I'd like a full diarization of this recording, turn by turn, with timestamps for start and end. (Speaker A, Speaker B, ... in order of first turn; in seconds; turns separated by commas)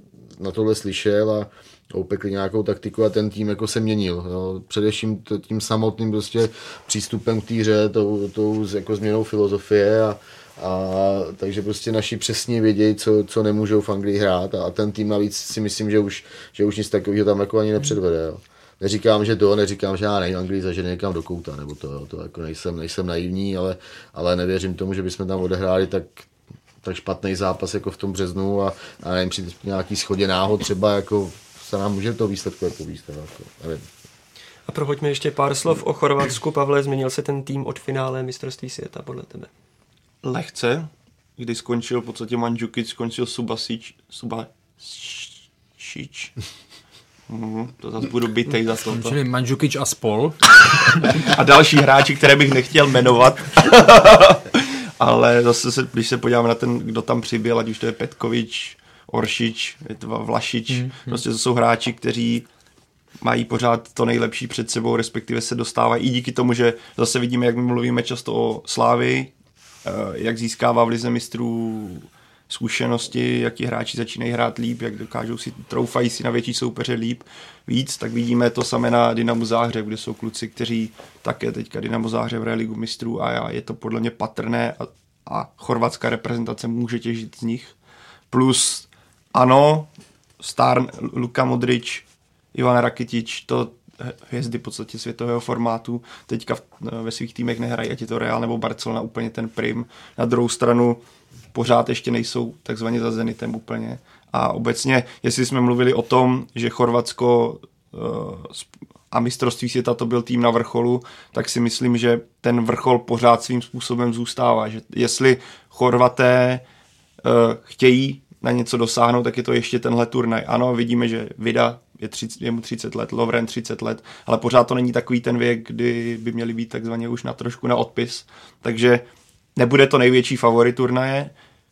Speaker A: 0.4-26.3, Speaker A: 26.8-33.9, Speaker B: 34.7-39.5, Speaker C: 40.2-46.4, Speaker C: 47.3-49.2, Speaker D: 48.9-50.4, Speaker C: 51.0-62.4, Speaker D: 60.7-61.2, Speaker C: 63.2-69.3, Speaker C: 69.8-87.7, Speaker C: 88.3-101.0, Speaker C: 101.5-116.6, Speaker C: 117.2-129.0, Speaker C: 129.6-131.3